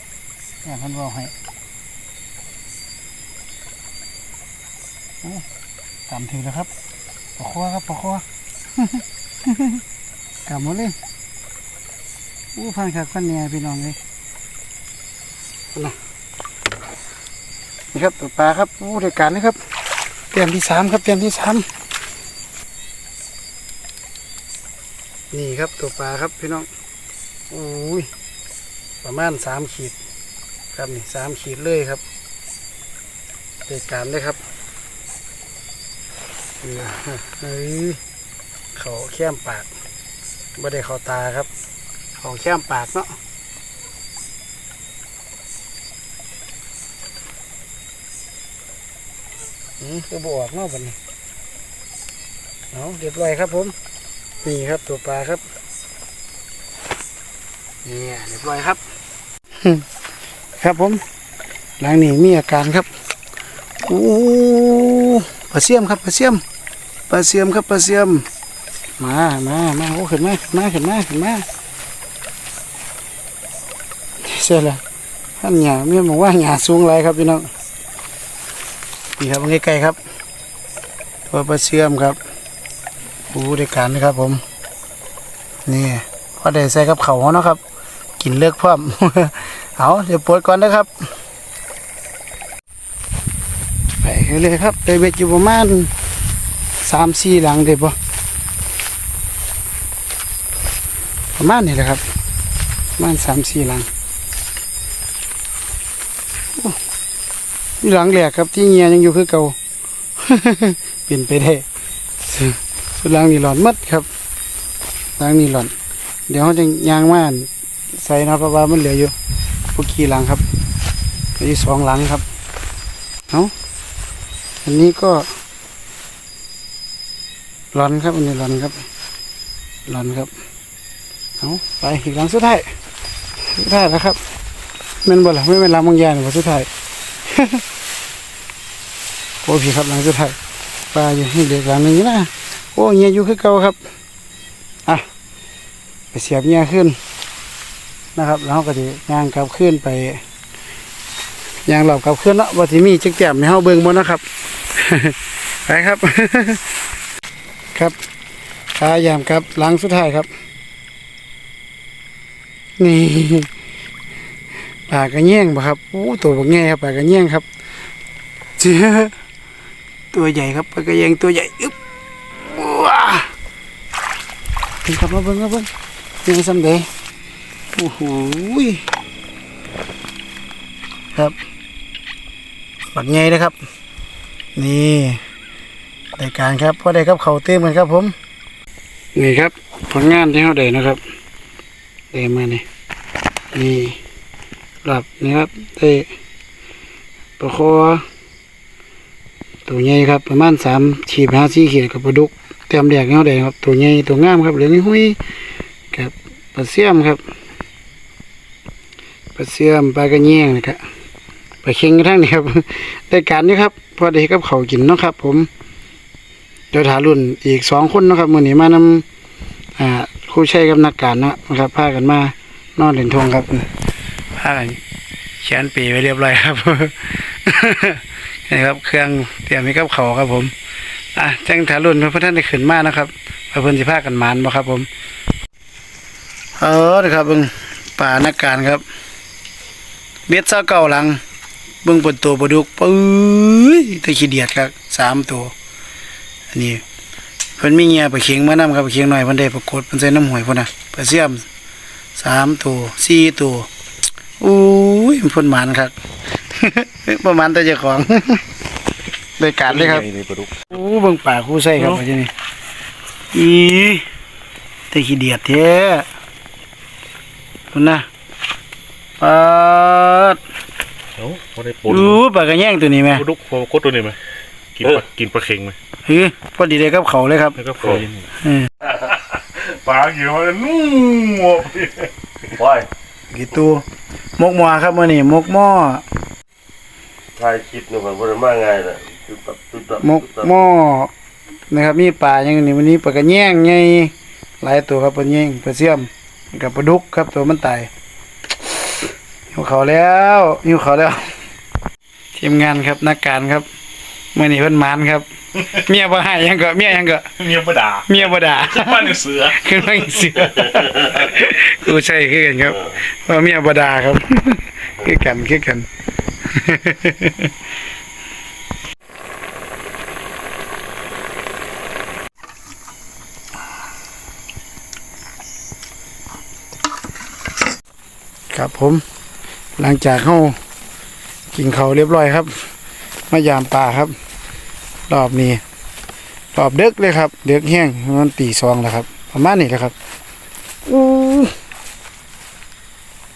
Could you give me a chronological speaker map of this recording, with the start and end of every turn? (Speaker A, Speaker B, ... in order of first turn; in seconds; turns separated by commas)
Speaker A: 0.6-1.3, Speaker A: 6.1-6.7, Speaker A: 7.4-8.2, Speaker A: 8.8-9.8, Speaker A: 10.5-11.0, Speaker A: 12.6-14.0, Speaker A: 17.9-19.6, Speaker A: 20.3-21.7, Speaker A: 25.3-26.7, Speaker A: 27.5-28.1, Speaker A: 29.0-30.0, Speaker A: 30.7-32.0, Speaker A: 33.7-34.4, Speaker A: 36.6-38.0, Speaker A: 38.7-39.7, Speaker A: 40.6-41.5, Speaker A: 42.2-43.2, Speaker A: 49.8-51.0, Speaker A: 52.7-53.8, Speaker A: 54.4-55.5, Speaker A: 57.9-58.8, Speaker A: 59.6-59.9, Speaker A: 60.6-61.0, Speaker A: 61.8-62.9, Speaker A: 63.8-66.4, Speaker A: 67.1-68.2, Speaker A: 69.0-71.5, Speaker A: 74.2-74.8, Speaker A: 75.4-77.5, Speaker A: 79.2-80.0, Speaker A: 81.3-82.2, Speaker A: 83.3-84.4, Speaker A: 85.7-87.6, Speaker A: 88.2-90.9, Speaker A: 94.0-95.9, Speaker A: 96.8-98.0, Speaker A: 101.4-102.0, Speaker A: 103.0-103.9, Speaker A: 107.8-109.6, Speaker A: 110.2-111.6, Speaker A: 112.2-114.1, Speaker A: 115.2-115.7, Speaker A: 116.3-119.1, Speaker A: 119.7-120.4, Speaker A: 121.4-122.2, Speaker A: 124.6-125.3, Speaker A: 127.7-128.8, Speaker A: 129.9-130.3, Speaker A: 131.4-132.7, Speaker A: 133.4-134.2, Speaker A: 135.1-136.7, Speaker A: 137.3-137.6, Speaker A: 139.4-140.4, Speaker A: 140.9-143.8, Speaker A: 146.1-147.0, Speaker A: 148.2-150.2, Speaker A: 151.7-154.2, Speaker A: 154.8-156.8, Speaker A: 158.8-160.3, Speaker A: 162.8-163.5, Speaker A: 164.9-167.4, Speaker A: 168.6-169.2, Speaker A: 170.1-171.8, Speaker A: 172.4-173.3, Speaker A: 174.8-175.7, Speaker A: 176.2-176.9, Speaker A: 177.7-178.8, Speaker A: 182.9-183.6, Speaker A: 184.6-185.2, Speaker A: 186.2-188.2, Speaker A: 189.2-191.0, Speaker A: 192.1-192.7, Speaker A: 193.5-194.0, Speaker A: 194.8-196.1, Speaker A: 197.4-198.0, Speaker A: 199.7-205.2, Speaker A: 205.9-207.2, Speaker A: 209.3-210.8, Speaker A: 211.6-215.5, Speaker A: 216.7-219.1, Speaker A: 219.8-223.7, Speaker A: 224.3-224.8, Speaker A: 225.4-230.5, Speaker A: 231.2-234.9, Speaker A: 236.6-238.8, Speaker A: 240.3-241.2, Speaker A: 241.8-245.5, Speaker A: 246.5-246.8, Speaker A: 247.6-251.5, Speaker A: 252.2-253.7, Speaker A: 254.4-255.9, Speaker A: 256.5-258.4, Speaker A: 259.4-260.1, Speaker B: 259.7-260.5, Speaker A: 260.7-262.3, Speaker A: 263.3-264.1, Speaker A: 264.9-266.1, Speaker A: 267.7-268.1, Speaker A: 269.2-270.4, Speaker B: 271.2-272.2, Speaker A: 271.9-273.2, Speaker B: 273.1-274.2, Speaker B: 274.8-275.8, Speaker A: 276.1-277.6, Speaker B: 277.6-278.3, Speaker A: 278.4-278.7, Speaker B: 278.9-282.1, Speaker C: 282.5-282.9, Speaker A: 283.3-283.9, Speaker A: 284.4-286.0, Speaker C: 287.4-290.6, Speaker A: 290.0-291.1, Speaker A: 291.7-297.9, Speaker A: 299.0-301.4, Speaker A: 302.4-303.7, Speaker A: 304.4-307.4, Speaker B: 307.4-309.7, Speaker A: 308.1-315.9, Speaker A: 316.4-317.5, Speaker A: 328.5-329.0, Speaker A: 329.8-330.6, Speaker A: 331.5-332.7, Speaker A: 333.3-334.1, Speaker A: 335.1-335.6, Speaker A: 336.6-339.9, Speaker A: 340.9-341.6